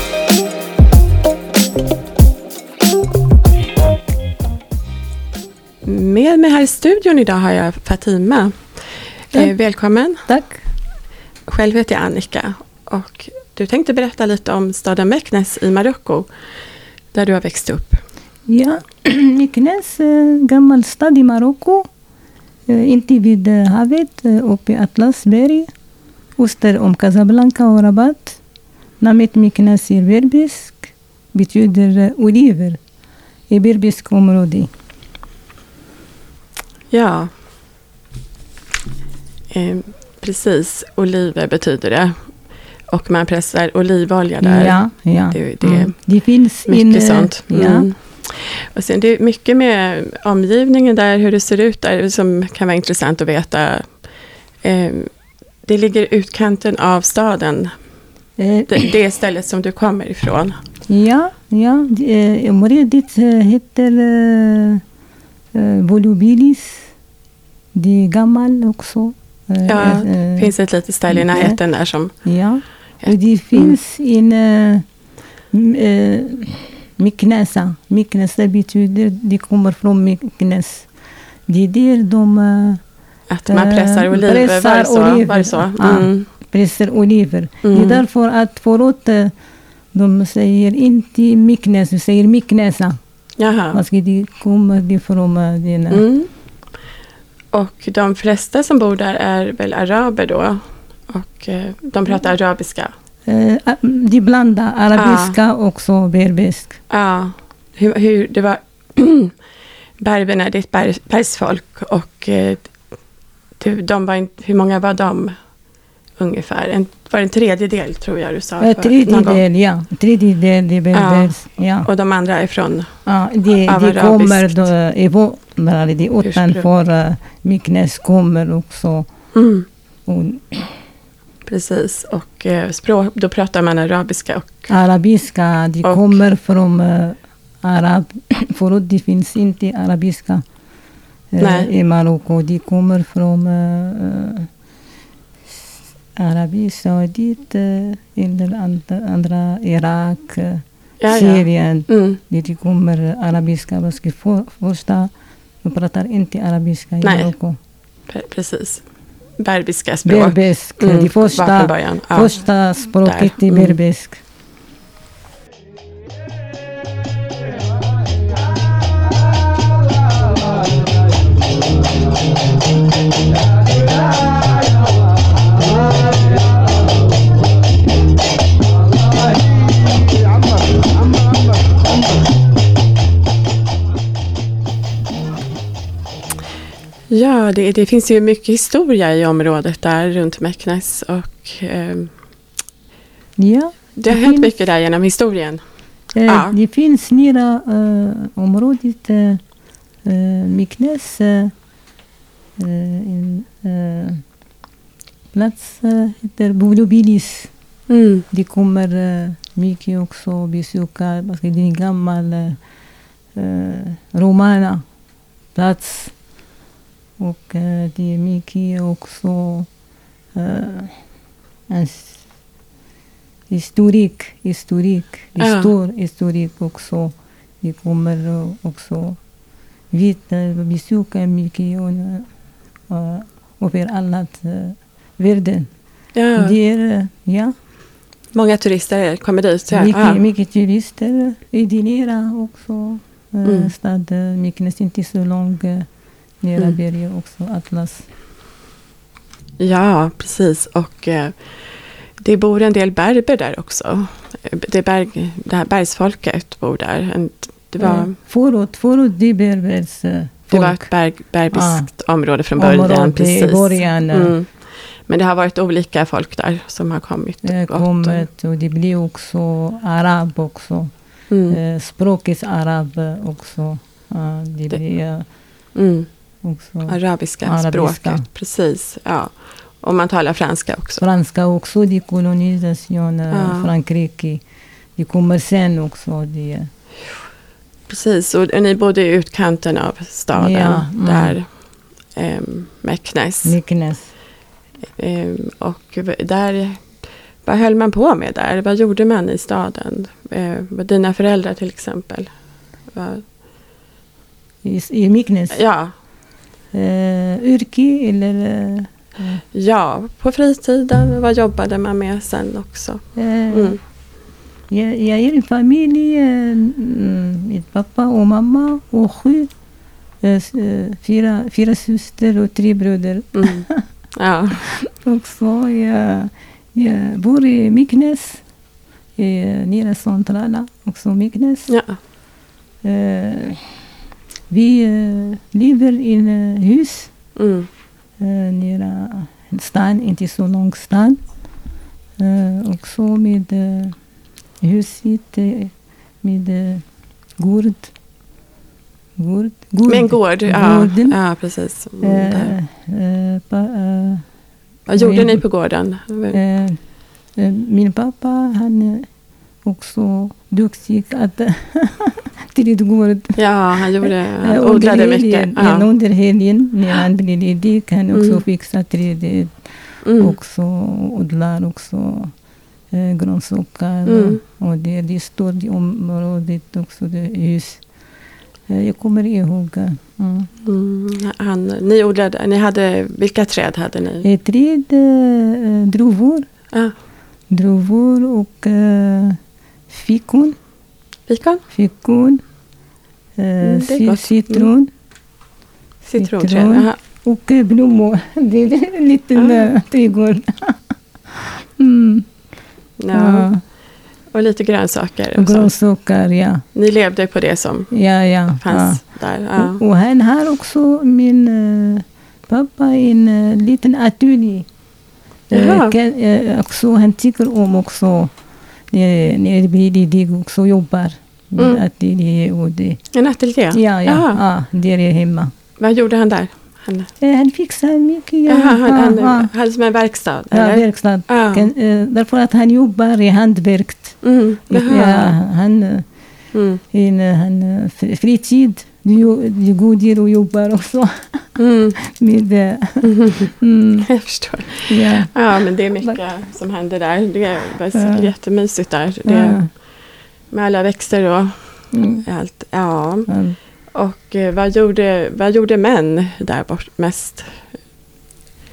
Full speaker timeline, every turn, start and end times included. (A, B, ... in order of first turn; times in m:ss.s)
0:05.8-0:10.2 A
0:10.3-0:10.6 B
0:11.5-0:16.3 A
0:17.1-0:18.0 A
0:18.5-0:21.9 B
0:22.7-0:25.7 B
0:26.4-0:28.4 B
0:29.0-0:32.8 B
0:33.5-0:34.7 B
0:36.9-0:37.3 A
0:39.5-0:42.3 A
0:42.9-0:46.0 A
0:44.4-0:47.9 B
0:46.6-0:54.0 A
0:54.6-0:55.1 A
0:55.6-0:57.7 A
0:58.4-0:58.7 B
0:58.7-1:00.6 A
1:00.9-1:04.8 B
1:05.5-1:06.9 B
1:07.7-1:10.5 B
1:09.6-1:12.1 A
1:11.1-1:11.6 B
1:12.2-1:14.8 B
1:13.0-1:13.8 A
1:15.5-1:20.9 B
1:21.5-1:22.8 B
1:23.3-1:26.3 A
1:23.5-1:29.3 B
1:27.6-1:28.0 A
1:29.9-1:33.0 B
1:33.4-1:33.8 A
1:33.7-1:36.0 B
1:35.9-1:36.3 A
1:37.5-1:42.9 A
1:43.2-1:46.8 B
1:44.9-1:45.4 A
1:46.9-1:49.3 A
1:50.0-1:52.7 A
1:53.6-1:55.3 A
1:56.2-1:59.4 A
1:58.6-2:01.9 B
2:00.9-2:02.9 A
2:03.0-2:09.1 B
2:03.6-2:04.7 A
2:06.2-2:06.6 A
2:09.3-2:09.7 A
2:10.1-2:10.7 B
2:11.4-2:14.7 A
2:14.7-2:20.4 B
2:15.8-2:16.2 A
2:21.3-2:24.5 B
2:21.4-2:21.7 A
2:26.2-2:35.1 B
2:31.0-2:32.2 A
2:35.6-2:37.6 B
2:37.0-2:37.3 A
2:38.1-2:38.8 A
2:39.4-2:42.4 A
2:40.0-2:44.2 B
2:43.0-2:43.8 A
3:07.1-3:12.1 A
3:13.4-3:14.5 B
3:14.0-3:15.6 A
3:16.1-3:19.4 B
3:16.2-3:16.6 A
3:20.0-3:21.5 B
3:22.6-3:24.2 B
3:25.3-3:27.5 B
3:27.9-3:28.2 A
3:28.3-3:32.6 B
3:33.3-3:34.8 B
3:35.5-3:36.1 B
3:37.2-3:39.7 B
3:40.3-3:41.0 B
3:41.7-3:42.3 B
3:43.5-3:49.2 B
3:45.4-3:45.7 A
3:49.9-3:52.3 B
3:52.9-3:55.7 B
3:56.1-3:56.6 A
3:56.4-3:57.5 B
3:58.3-4:00.2 A
3:59.7-4:05.9 B
4:03.4-4:03.7 A
4:06.4-4:08.1 B
4:09.6-4:11.4 A
4:12.2-4:18.1 A
4:17.8-4:20.9 B
4:20.5-4:28.2 A
4:21.5-4:21.9 B
4:22.6-4:24.3 B
4:27.4-4:30.9 B
4:31.3-4:31.6 A
4:31.5-4:35.2 B
4:35.7-4:36.1 A
4:36.4-4:38.2 B
4:36.9-4:41.0 A
4:41.0-4:44.4 B
4:43.3-4:43.7 A
4:45.0-4:46.7 B
4:47.9-4:53.6 A
4:50.3-4:51.4 B
4:53.4-4:54.1 B
4:55.0-5:02.3 A
5:02.9-5:03.2 A
5:04.6-5:05.6 B
5:05.5-5:05.9 A
5:06.7-5:09.4 B
5:09.5-5:13.8 A
5:13.2-5:13.8 B
5:14.7-5:19.5 B
5:20.2-5:23.8 B
5:23.3-5:24.7 A
5:24.9-5:28.4 B
5:29.2-5:31.7 B
5:31.7-5:32.0 A
5:32.8-5:33.8 B
5:34.5-5:37.1 B
5:37.4-5:37.7 A
5:38.2-5:41.2 B
5:42.2-5:44.0 B
5:44.6-5:46.8 B
5:47.4-5:47.9 B
5:49.2-5:51.2 B
5:49.8-5:52.5 A
5:52.0-5:54.2 B
5:54.9-5:56.4 A
5:55.0-5:55.4 B
5:56.3-5:56.8 B
5:57.3-5:59.1 B
5:59.6-6:12.3 B
6:03.4-6:05.9 A
6:08.1-6:08.4 A
6:10.0-6:10.4 A
6:12.9-6:17.9 B
6:14.0-6:14.4 A
6:18.7-6:20.5 B
6:20.6-6:24.2 A
6:24.2-6:26.4 B
6:27.5-6:29.4 B
6:29.9-6:30.6 B
6:31.3-6:31.6 A
6:31.7-6:32.4 B
6:33.4-6:34.9 B
6:33.6-6:34.7 A
6:36.0-6:37.0 A
6:36.2-6:40.8 B
6:39.3-6:39.7 A
6:41.8-6:42.3 B
6:43.0-6:43.5 A
6:43.1-6:43.6 B
6:44.3-6:45.7 A
6:45.3-6:46.6 B
6:46.7-6:47.9 A
6:47.9-6:49.0 B
6:48.5-6:49.8 A
6:49.6-6:54.7 B
6:55.5-6:58.3 B
6:55.5-6:55.9 A
6:58.9-7:03.1 B
7:01.6-7:01.8 A
7:03.1-7:04.4 A
7:03.7-7:05.5 B
7:05.8-7:07.1 A
7:07.2-7:09.5 B
7:08.5-7:11.7 A
7:10.5-7:16.0 B
7:14.2-7:15.4 A
7:16.5-7:16.8 A
7:16.9-7:21.5 B
7:21.6-7:22.0 A
7:22.1-7:24.1 B
7:23.0-7:23.5 A
7:24.0-7:29.8 A
7:24.9-7:26.2 B
7:27.9-7:28.3 B
7:29.2-7:29.7 B
7:30.5-7:33.3 A
7:31.9-7:32.2 B
7:33.3-7:33.6 B
7:33.9-7:37.7 A